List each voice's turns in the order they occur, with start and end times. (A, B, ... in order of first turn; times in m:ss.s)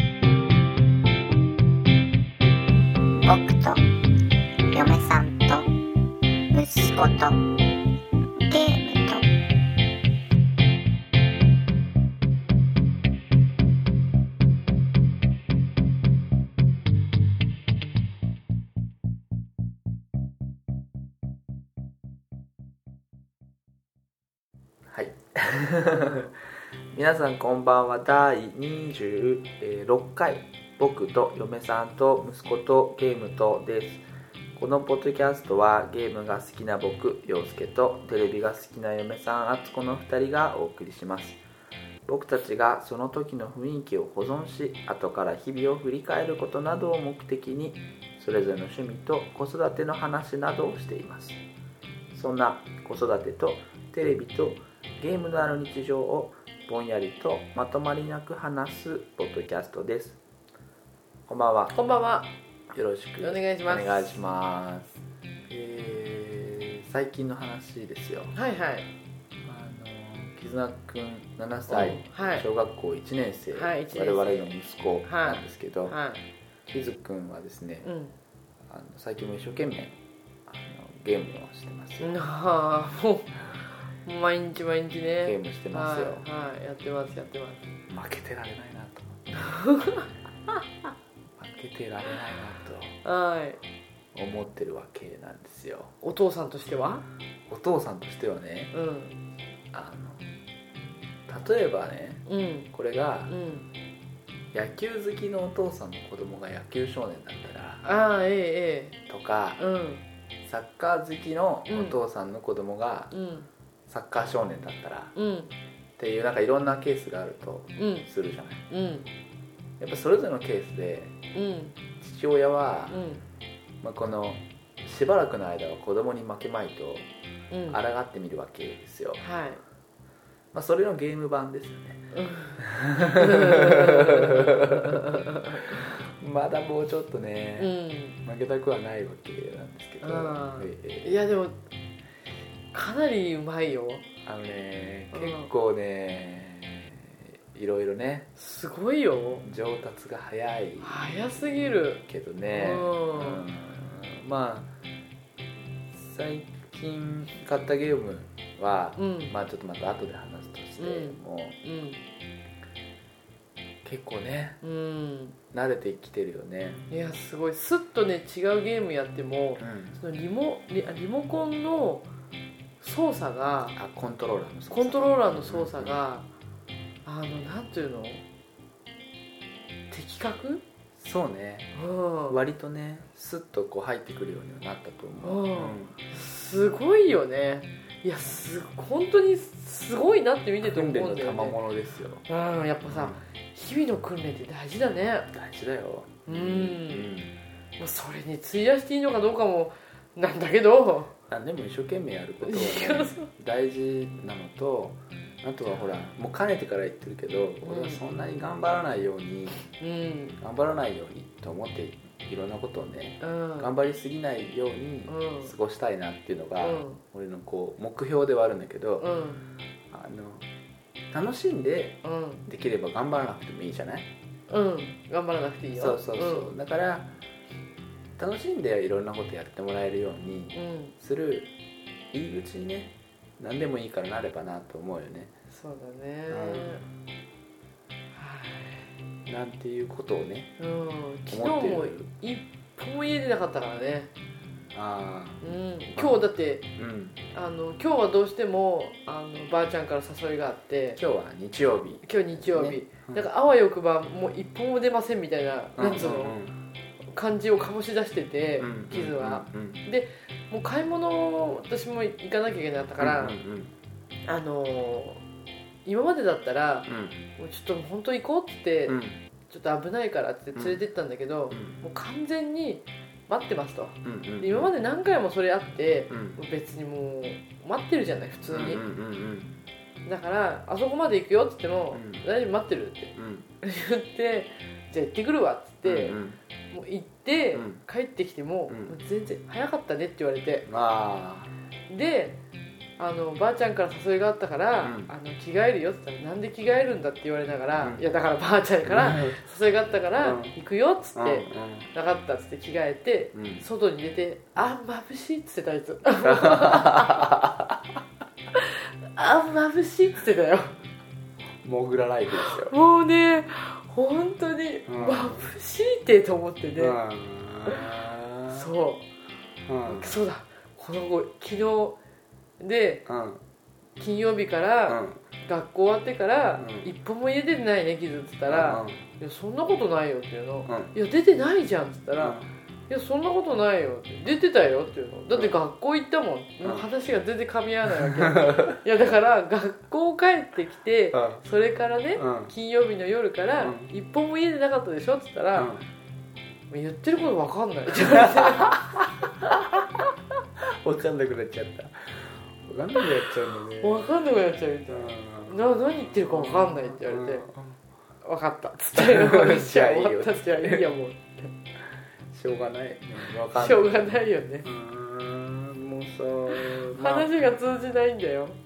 0:03.2-0:03.8 A
0:04.7-0:05.7 A
0:06.5-0:07.4 A
0:08.5-0:09.2 A
0:24.9-0:26.3 B
0:26.9-0:34.0 B
0:34.5-0:41.4 B
0:42.0-0:51.4 B
0:52.1-1:00.2 B
1:01.3-1:01.8 B
1:01.7-1:02.3 C
1:02.7-1:08.3 B
1:03.2-1:04.1 C
1:08.3-1:08.9 C
1:09.4-1:16.0 B
1:11.7-1:12.4 C
1:13.5-1:14.5 C
1:15.0-1:16.2 C
1:16.6-1:17.9 B
1:17.8-1:18.2 C
1:18.6-1:22.2 B
1:22.0-1:23.3 C
1:24.0-1:27.7 C
1:25.2-1:26.2 B
1:27.9-1:29.2 B
1:29.3-1:30.1 C
1:31.4-1:33.0 B
1:33.0-1:33.6 C
1:34.1-1:35.9 B
1:36.0-1:37.0 C
1:37.5-1:38.7 B
1:38.7-1:39.2 C
1:39.7-1:40.3 B
1:41.3-1:43.3 B
1:42.3-1:42.7 C
1:43.3-1:43.7 C
1:44.5-1:47.8 B
1:47.8-1:49.0 C
1:49.1-1:49.6 B
1:49.6-1:50.0 C
1:50.4-1:53.1 B
1:51.7-1:52.0 C
1:53.1-1:53.5 C
1:53.9-1:55.1 B
1:55.2-1:55.5 C
1:56.0-1:58.6 B
1:57.8-1:58.1 C
1:58.7-1:59.1 C
1:59.8-2:01.1 B
2:01.3-2:01.8 C
2:02.0-2:03.0 B
2:02.9-2:03.2 C
2:03.8-2:07.1 B
2:07.5-2:07.8 C
2:07.7-2:09.2 B
2:09.2-2:09.6 C
2:10.5-2:17.7 B
2:12.1-2:15.8 C
2:17.6-2:18.2 C
2:18.2-2:21.1 B
2:20.0-2:21.5 C
2:22.7-2:24.0 C
2:24.2-2:28.3 B
2:25.1-2:25.5 C
2:28.4-2:29.4 C
2:29.4-2:34.7 B
2:30.8-2:33.4 C
2:35.9-2:41.6 B
2:39.0-2:39.3 C
2:40.8-2:42.0 C
2:43.8-2:44.6 B
2:44.6-2:45.4 C
2:45.5-2:46.8 B
2:46.9-2:52.1 C
2:49.6-2:50.0 B
2:52.8-2:53.8 C
2:53.7-2:56.0 B
2:54.7-2:56.3 C
2:57.0-2:58.2 C
2:59.9-3:00.6 C
3:01.0-3:01.7 B
3:01.8-3:02.4 C
3:02.3-3:05.9 B
3:05.2-3:11.6 C
3:10.6-3:12.2 B
3:12.3-3:15.3 C
3:12.9-3:13.2 B
3:15.3-3:17.4 B
3:16.3-3:17.1 C
3:17.8-3:21.1 C
3:21.3-3:29.6 B
3:22.4-3:23.3 C
3:27.6-3:28.0 C
3:29.6-3:30.4 C
3:30.4-3:39.0 B
3:33.2-3:33.7 C
3:35.1-3:35.5 C
3:36.6-3:37.0 C
3:39.0-3:39.4 C
3:39.9-3:40.4 B
3:41.1-3:44.1 B
3:42.0-3:42.4 C
3:44.5-3:46.5 C
3:45.7-3:47.1 B
3:48.2-3:51.5 B
3:50.5-3:50.9 C
3:52.1-3:55.3 B
3:55.5-3:56.8 C
3:56.3-3:56.8 B
3:58.1-3:58.9 C
3:59.2-4:00.5 B
4:00.6-4:04.1 C
4:01.3-4:02.1 B
4:04.7-4:06.2 B
4:05.4-4:06.7 C
4:06.7-4:07.2 B
4:07.3-4:11.0 C
4:11.0-4:13.3 B
4:12.0-4:16.4 C
4:15.8-4:16.6 B
4:17.1-4:23.4 C
4:18.6-4:19.8 B
4:23.0-4:23.7 B
4:24.3-4:25.2 C
4:25.8-4:38.8 C
4:26.9-4:27.2 B
4:28.9-4:29.2 B
4:30.5-4:30.8 B
4:31.5-4:31.8 B
4:34.0-4:34.7 B
4:36.1-4:36.4 B
4:38.5-4:39.6 B
4:40.0-4:46.2 C
4:41.9-4:42.2 B
4:43.1-4:43.5 B
4:45.8-4:46.4 B
4:46.7-4:50.7 C
4:47.5-4:47.8 B
4:48.7-4:48.9 B
4:50.7-4:51.5 B
4:51.9-4:52.4 C
4:53.0-5:07.3 C
4:54.8-4:55.1 B
4:58.8-4:59.4 B
5:00.2-5:00.5 B
5:01.1-5:01.9 B
5:03.3-5:03.6 B
5:06.2-5:07.8 B
5:08.6-5:10.7 C
5:11.6-5:12.7 B
5:12.4-5:17.0 C
5:14.9-5:15.5 B
5:16.8-5:18.7 B
5:18.5-5:19.0 C
5:19.7-5:20.2 B
5:19.8-5:22.0 C
5:22.6-5:23.1 C
5:23.0-5:23.4 B
5:24.0-5:45.7 C
5:24.9-5:25.2 B
5:26.6-5:26.9 B
5:28.5-5:29.0 B
5:30.6-5:30.9 B
5:32.2-5:32.5 B
5:37.9-5:38.8 B
5:41.1-5:41.4 B
5:42.2-5:42.5 B
5:43.6-5:43.9 B
5:45.5-5:45.8 B
5:46.7-5:48.8 C
5:47.9-5:50.1 B
5:50.6-5:54.1 B
5:53.8-5:57.5 C
5:54.9-5:57.8 B
5:58.2-6:01.5 C
5:59.0-6:00.8 B
6:02.3-6:03.9 B
6:03.5-6:04.7 C
6:04.6-6:07.3 B
6:06.5-6:08.6 C